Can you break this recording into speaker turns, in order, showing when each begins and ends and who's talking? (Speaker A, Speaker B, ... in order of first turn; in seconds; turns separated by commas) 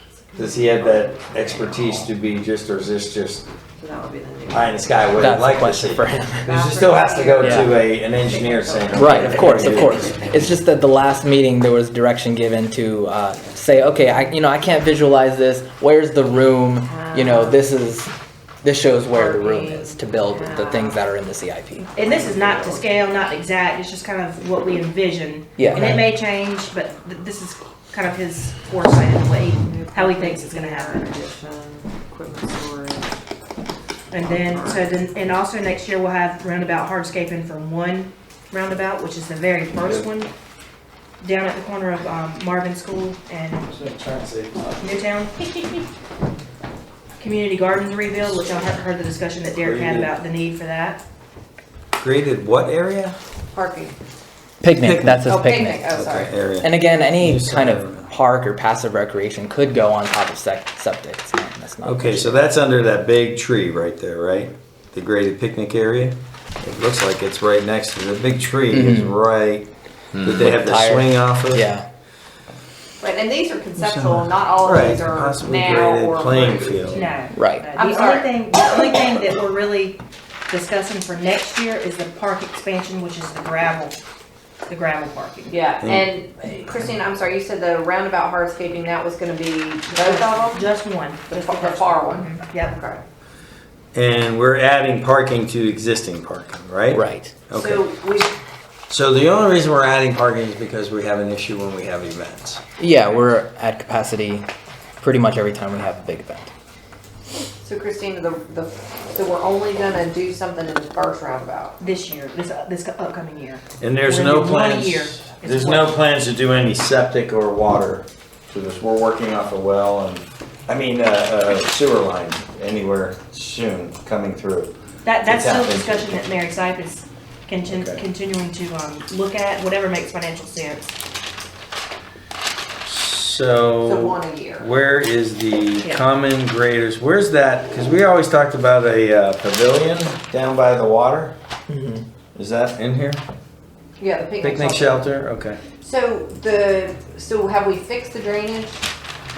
Speaker A: 0.3-1.2, Speaker B: 0.3-3.4, Speaker A: 3.8-4.9, Speaker B: 4.5-10.2, Speaker C: 5.1-6.5, Speaker A: 6.4-10.5, Speaker C: 7.4-7.7, Speaker C: 8.9-18.1, Speaker A: 16.9-17.6, Speaker C: 18.6-21.9, Speaker A: 19.1-21.0, Speaker D: 21.9-31.1, Speaker A: 22.2-22.7, Speaker C: 25.6-26.1, Speaker A: 29.6-33.1, Speaker D: 34.1-40.3, Speaker A: 34.4-34.9, Speaker D: 41.2-43.7, Speaker B: 43.7-44.8, Speaker D: 44.7-45.8, Speaker D: 47.2-51.0, Speaker B: 49.6-50.1, Speaker B: 52.0-53.2, Speaker A: 53.5-54.0, Speaker C: 54.6-55.9, Speaker B: 54.7-55.2, Speaker A: 55.2-56.3, Speaker B: 55.9-58.1, Speaker C: 56.6-62.4, Speaker B: 61.8-69.7, Speaker C: 68.7-69.2, Speaker B: 70.2-71.7, Speaker C: 70.3-71.9, Speaker A: 73.0-77.0, Speaker B: 73.8-77.1, Speaker D: 76.9-84.0, Speaker C: 77.3-77.7, Speaker A: 77.8-79.0, Speaker D: 84.7-85.6, Speaker A: 85.5-90.7, Speaker D: 89.9-92.7, Speaker A: 91.3-93.0, Speaker B: 93.9-97.9, Speaker C: 96.9-97.3, Speaker A: 97.5-98.3, Speaker B: 98.9-102.6, Speaker C: 102.8-104.5, Speaker C: 105.0-106.5, Speaker A: 107.6-111.8, Speaker D: 111.8-116.0, Speaker B: 113.8-124.7, Speaker D: 125.0-130.9, Speaker B: 125.2-126.2, Speaker B: 127.7-128.0, Speaker B: 132.8-141.3, Speaker A: 133.8-134.7, Speaker C: 141.7-142.1, Speaker B: 142.3-143.2, Speaker A: 144.0-145.1, Speaker B: 144.4-145.6, Speaker A: 145.8-148.8